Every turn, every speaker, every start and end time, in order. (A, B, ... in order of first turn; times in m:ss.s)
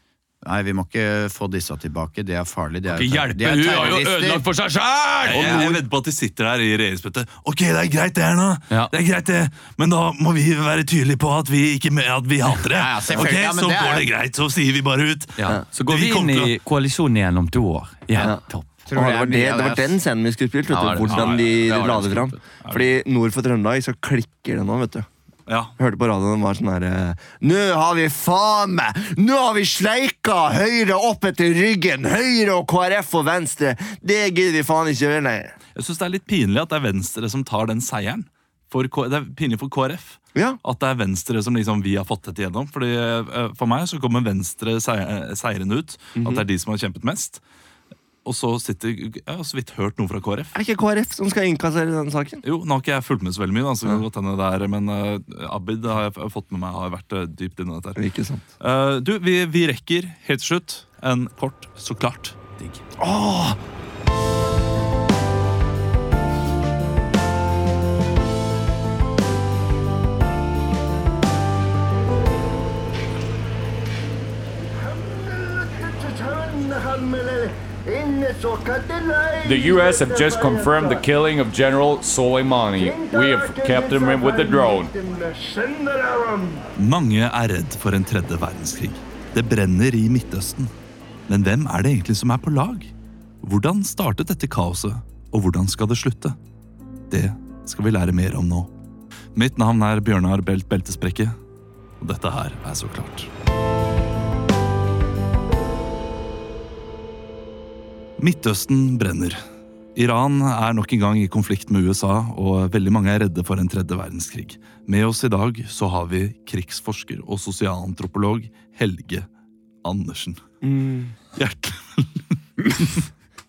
0:00.4-0:04.4 A
0:02.9-0:05.8 B
0:05.3-0:16.5 C
0:12.7-0:14.1 A
0:15.4-0:18.8 B
0:18.2-0:25.1 D
0:18.9-0:19.9 A
0:20.7-0:22.4 B
0:21.0-0:21.6 C
0:25.5-0:25.7 C
0:25.8-0:35.6 D
0:35.7-0:47.4 C
0:46.2-0:46.4 D
0:48.2-0:50.5 C
0:50.5-0:52.4 D
0:52.4-0:58.0 C
0:58.0-0:58.4 D
0:58.6-1:02.4 C
1:03.0-1:03.6 D
1:14.9-1:21.1 D
1:19.4-1:24.9 E
1:22.8-1:26.6 D
1:26.8-1:30.7 C
1:31.3-1:32.9 C
1:33.4-1:36.4 C
1:37.1-1:38.7 C
1:39.3-1:41.3 C
1:42.0-1:43.3 C
1:48.2-1:49.4 C
1:49.9-1:59.2 C
1:59.8-2:00.4 C
2:00.6-2:01.2 D
2:01.3-2:03.0 C